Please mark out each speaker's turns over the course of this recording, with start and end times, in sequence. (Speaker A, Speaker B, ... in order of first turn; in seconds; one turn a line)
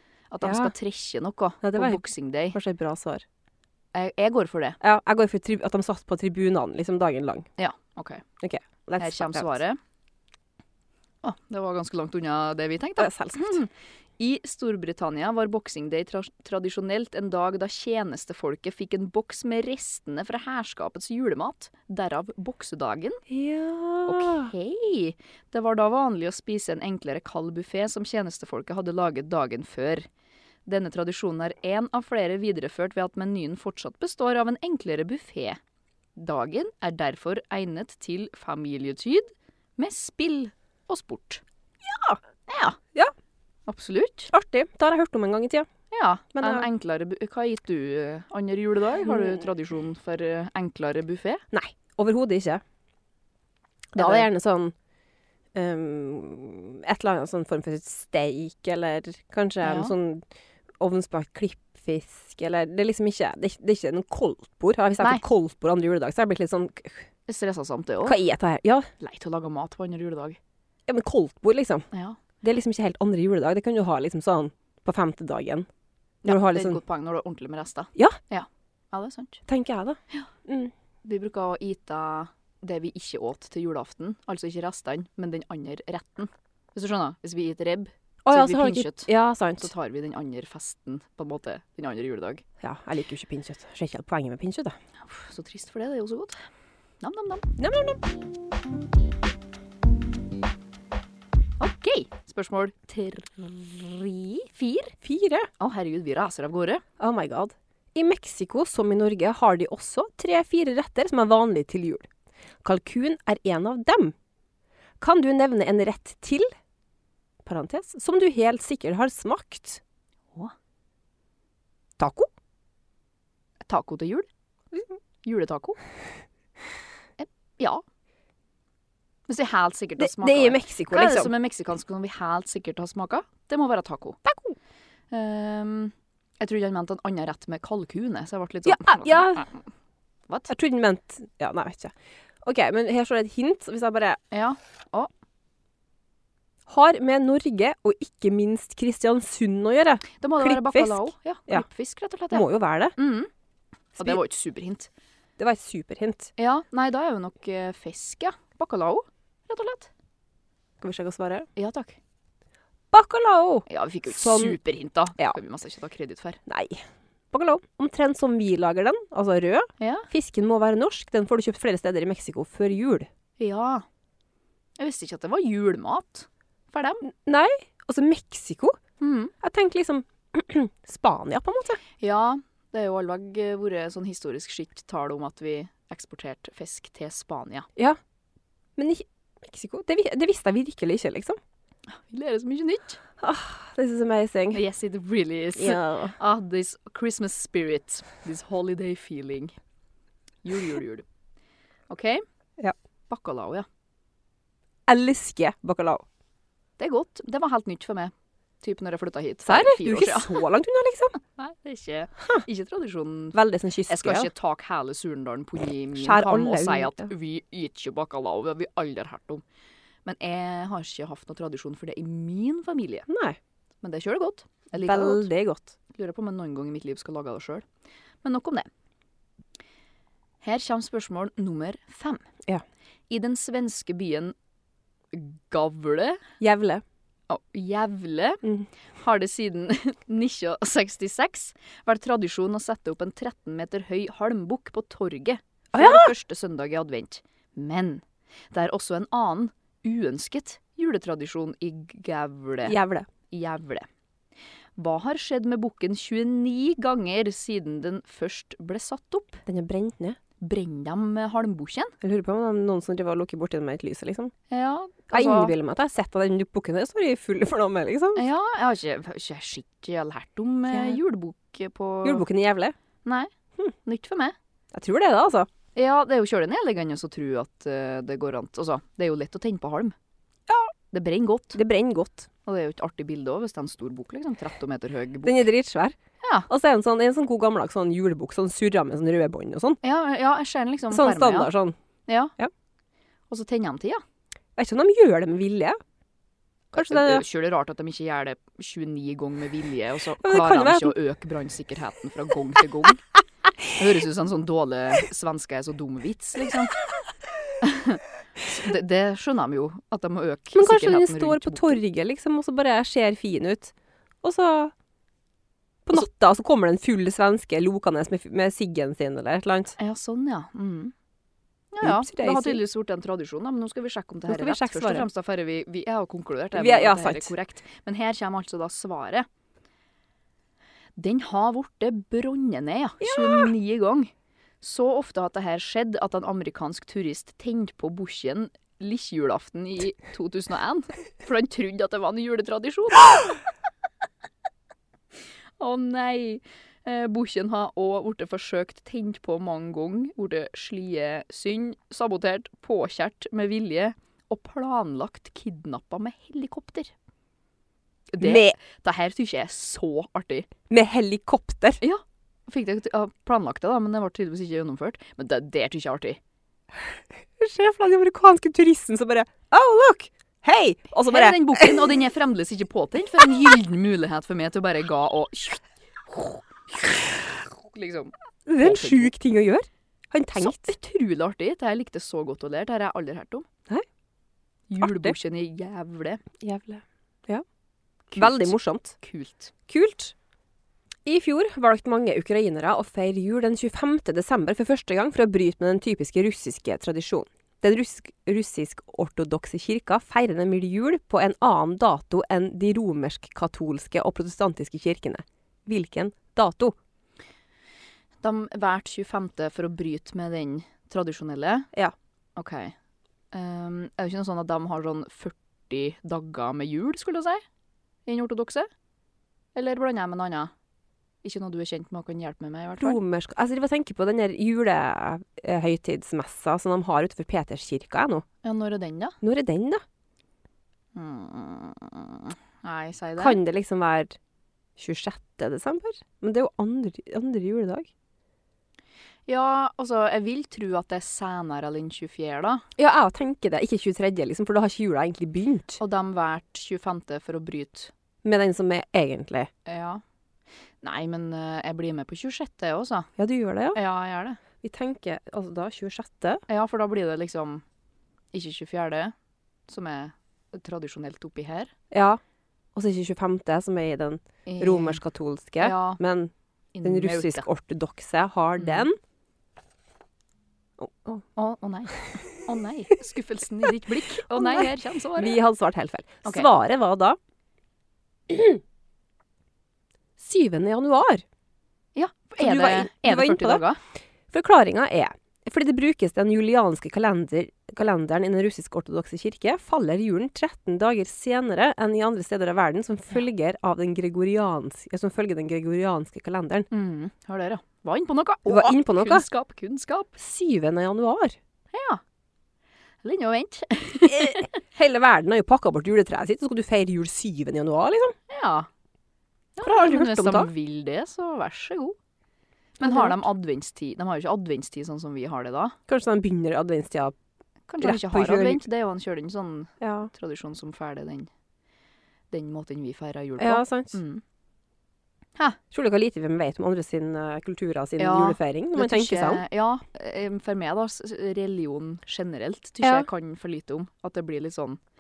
Speaker A: 0.3-2.6
Speaker B: 0.4-0.7
Speaker B: 1.6-3.2
Speaker A: 3.9-4.8
Speaker B: 4.8-7.5
Speaker A: 7.6-8.2
Speaker B: 8.4-9.4
Speaker A: 9.0-9.8
Speaker A: 11.2-23.2
Speaker B: 13.0-13.6
Speaker B: 23.3-24.5
Speaker A: 24.0-30.1
Speaker A: 30.6-35.6
Speaker A: 36.1-41.4
Speaker B: 41.8-42.2
Speaker A: 42.5-42.8
Speaker A: 43.7-44.3
Speaker B: 44.3-45.7
Speaker A: 45.9-51.4
Speaker B: 46.4-46.7
Speaker B: 49.0-49.4
Speaker B: 51.5-52.6
Speaker B: 53.9-54.7
Speaker A: 54.0-54.3
Speaker B: 55.5-60.2
Speaker A: 59.6-59.9
Speaker B: 60.8-67.1
Speaker A: 67.3-68.2
Speaker B: 68.0-68.9
Speaker A: 69.0-70.4
Speaker B: 70.9-71.9
Speaker A: 71.9-72.2
Speaker B: 72.4-75.7
Speaker A: 76.2-79.4
Speaker B: 76.2-76.8
Speaker B: 79.5-80.7
Speaker A: 81.0-92.4
Speaker B: 88.2-89.7
Speaker B: 92.6-94.8
Speaker A: 95.0-96.4
Speaker A: 97.0-97.5
Speaker B: 97.6-98.0
Speaker A: 101.6-104.9
Speaker B: 105.0-105.5
Speaker A: 105.6-106.8
Speaker B: 107.0-112.1
Speaker B: 112.6-114.1
Speaker B: 115.0-116.5
Speaker B: 117.4-119.8
Speaker B: 122.0-122.3
Speaker A: 123.7-124.3
Speaker A: 125.2-125.8
Speaker A: 127.2-127.8
Speaker A: 129.3-134.2
Speaker B: 130.0-131.3
Speaker B: 134.2-134.6
Speaker A: 135.1-139.6
Speaker B: 138.6-139.5
Speaker B: 140.5-144.2
Speaker A: 144.3-145.1
Speaker B: 146.7-151.7
Speaker A: 150.1-153.3
Speaker B: 152.3-152.9
Speaker A: 153.9-154.9
Speaker B: 155.4-156.3
Speaker A: 156.4-159.9
Speaker B: 160.8-161.5
Speaker A: 161.6-162.0
Speaker B: 162.9-164.6
Speaker A: 163.7-166.4
Speaker B: 166.4-173.1
Speaker A: 169.8-170.1
Speaker A: 173.4-173.8
Speaker A: 174.8-177.0
Speaker B: 177.0-178.8
Speaker A: 179.0-179.3
Speaker B: 179.4-181.8
Speaker A: 182.0-187.7
Speaker B: 188.8-191.4
Speaker A: 191.9-193.0
Speaker B: 193.2-194.6
Speaker A: 194.5-199.5
Speaker B: 195.6-196.2
Speaker A: 200.4-201.0
Speaker A: 201.9-202.2
Speaker A: 203.1-203.7
Speaker B: 204.9-206.0
Speaker A: 206.8-210.4
Speaker B: 209.4-211.2
Speaker A: 211.3-219.4
Speaker B: 213.3-214.3
Speaker B: 216.0-217.1
Speaker A: 220.0-223.1
Speaker B: 223.1-223.4
Speaker A: 223.8-225.3
Speaker B: 224.8-225.7
Speaker A: 225.9-227.7
Speaker A: 228.2-228.7
Speaker A: 230.4-232.2
Speaker A: 233.1-234.3
Speaker A: 235.1-236.2
Speaker B: 236.4-236.8
Speaker A: 237.3-252.8
Speaker B: 245.7-246.1
Speaker B: 252.6-253.1
Speaker A: 253.3-253.9
Speaker A: 254.8-259.4
Speaker B: 259.4-260.2
Speaker A: 260.4-261.9
Speaker B: 262.0-264.3
Speaker A: 264.5-265.5
Speaker B: 265.1-268.2
Speaker A: 268.1-272.3
Speaker B: 270.7-271.0
Speaker B: 272.0-272.8
Speaker A: 273.0-273.3
Speaker A: 273.8-274.4
Speaker B: 274.7-275.5
Speaker A: 275.7-279.9
Speaker A: 280.9-281.6
Speaker B: 281.5-282.3
Speaker A: 282.4-285.5
Speaker B: 285.2-286.0
Speaker A: 286.2-286.5
Speaker B: 286.5-289.8
Speaker A: 289.8-291.5
Speaker B: 290.9-291.8
Speaker A: 292.1-292.3
Speaker A: 293.3-294.0
Speaker B: 294.6-295.8
Speaker A: 296.7-303.0
Speaker B: 296.7-297.2
Speaker B: 300.2-300.9
Speaker A: 303.7-306.8
Speaker A: 307.6-311.8
Speaker B: 310.5-314.7
Speaker B: 315.9-319.8
Speaker A: 319.8-320.9
Speaker A: 321.7-329.2
Speaker B: 321.8-322.6
Speaker B: 324.3-325.1
Speaker B: 326.5-327.3
Speaker A: 330.9-343.4
Speaker B: 333.0-333.5
Speaker A: 345.6-356.9
Speaker A: 358.1-360.5
Speaker B: 358.2-358.6
Speaker B: 360.7-361.8
Speaker A: 361.8-366.2
Speaker B: 366.8-371.9
Speaker A: 371.1-379.1
Speaker B: 378.4-380.8
Speaker A: 380.3-383.5
Speaker A: 384.7-386.2
Speaker B: 384.8-385.1
Speaker B: 386.4-387.4
Speaker A: 388.1-389.5
Speaker B: 388.1-389.0
Speaker B: 389.7-390.1
Speaker B: 391.0-406.7
Speaker A: 408.2-411.7
Speaker A: 412.4-412.7
Speaker A: 413.3-417.4
Speaker A: 418.1-418.7
Speaker A: 419.5-420.5
Speaker A: 421.2-423.0
Speaker B: 422.8-428.2
Speaker A: 428.4-429.1
Speaker B: 429.2-429.8
Speaker A: 430.9-433.4
Speaker B: 433.2-434.1
Speaker B: 434.8-437.9
Speaker A: 439.3-442.6
Speaker B: 442.8-445.8
Speaker A: 445.8-447.9
Speaker B: 448.2-449.5
Speaker A: 449.6-450.0
Speaker A: 450.8-453.1
Speaker B: 453.2-453.8
Speaker A: 453.7-454.4
Speaker B: 454.6-456.4
Speaker A: 456.5-457.6
Speaker A: 458.3-459.1
Speaker A: 459.7-461.7
Speaker B: 461.9-462.2
Speaker B: 462.7-466.3
Speaker A: 464.4-465.0
Speaker A: 465.6-466.0
Speaker A: 466.7-467.4
Speaker B: 466.8-469.0
Speaker A: 468.6-468.9
Speaker B: 470.8-471.2
Speaker A: 471.4-475.4
Speaker B: 474.1-477.2
Speaker A: 476.2-476.5
Speaker B: 478.3-478.6
Speaker B: 480.2-481.2
Speaker A: 481.9-483.8
Speaker B: 482.4-483.6
Speaker B: 484.3-496.7
Speaker A: 496.7-500.1
Speaker B: 498.4-499.2
Speaker B: 500.2-501.4
Speaker A: 501.7-502.0
Speaker A: 503.0-504.5
Speaker B: 504.1-508.1
Speaker A: 508.3-508.7
Speaker A: 509.6-511.9
Speaker B: 509.6-510.5
Speaker A: 512.8-515.8
Speaker B: 512.8-513.2
Speaker B: 515.9-517.1
Speaker A: 517.7-521.3
Speaker B: 517.8-518.6
Speaker B: 519.8-520.1
Speaker A: 522.3-524.2
Speaker B: 523.4-524.0
Speaker B: 525.7-529.4
Speaker A: 528.0-534.8
Speaker B: 532.8-533.1